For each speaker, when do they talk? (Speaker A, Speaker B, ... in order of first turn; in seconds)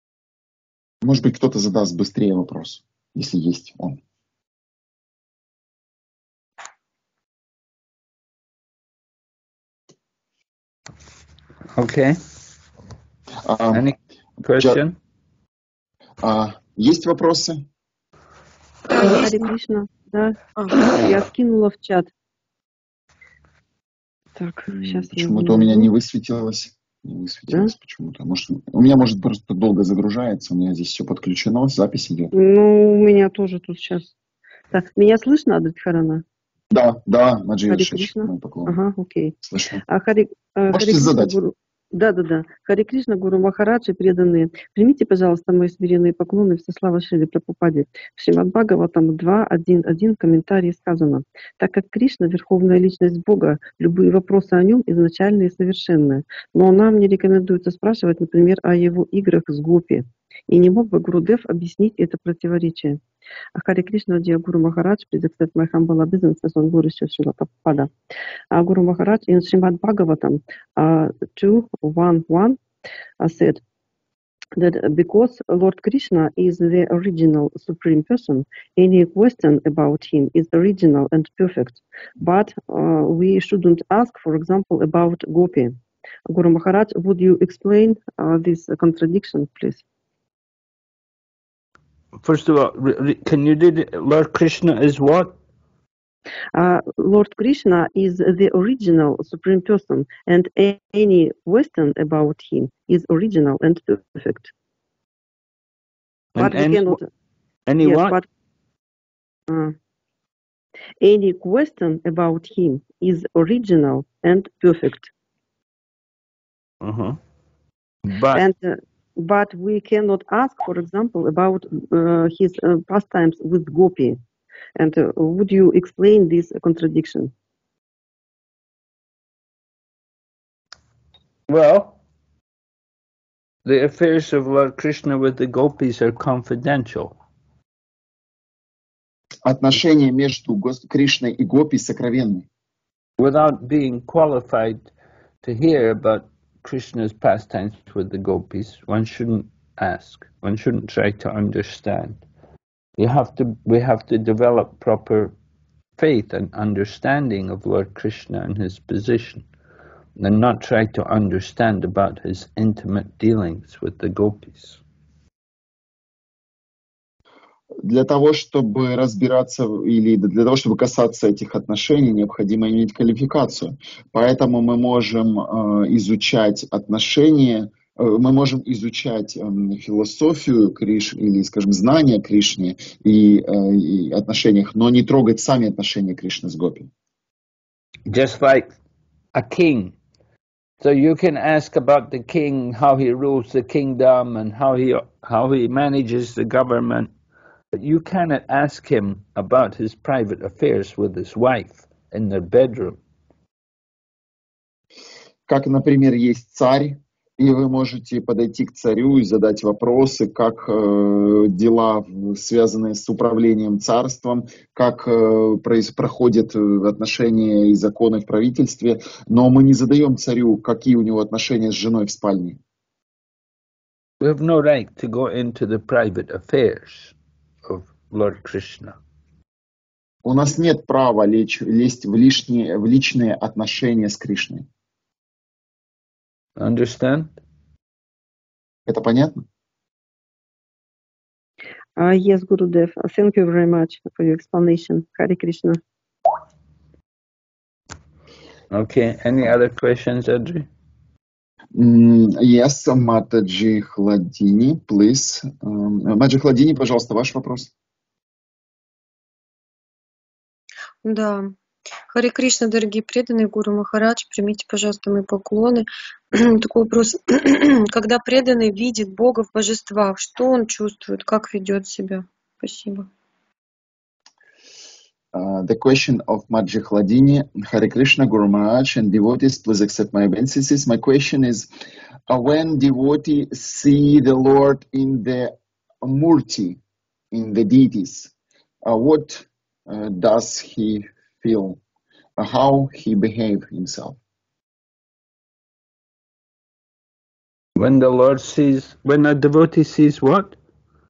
Speaker A: 1.0-4.0, 13.4-13.8, 16.2-17.6, 24.7-32.3, 36.7-38.8, 39.4-39.8, 40.7-41.4, 139.4-142.5, 167.8-186.9, 205.5-222.6, 230.2-234.7, 238.9-239.4, 251.8-257.7, 275.3-281.7, 282.3-286.8, 287.3-288.3, 288.9-291.8, 292.4-294.2
Speaker B: 11.8-12.2, 13.7-15.0, 92.2-95.3, 106.3-107.0, 107.7-108.2, 116.8-117.2, 118.0-118.4, 131.5-132.0, 133.7-137.2, 143.2-144.9, 145.4-152.2, 153.0-155.3, 156.0-159.5, 160.2-164.8, 188.1-188.7, 189.3-189.9, 190.8-197.1, 197.7-203.0, 224.2-229.0, 236.6-237.4, 248.7-250.7, 297.8-300.6
Speaker C: 18.9-19.4, 20.6-20.9, 261.0-261.6, 262.1-273.1
Speaker D: 18.9-22.1, 24.4-25.9, 32.3-34.1, 34.7-36.2, 37.7-39.4, 39.9-63.0, 63.6-67.9, 68.5-72.6, 73.2-73.6, 74.6-85.8, 86.3-89.8, 96.5-104.5, 106.4-107.1, 107.8-108.3, 109.5-109.8, 111.0-115.1, 118.3-124.2, 124.8-127.3, 242.0-245.8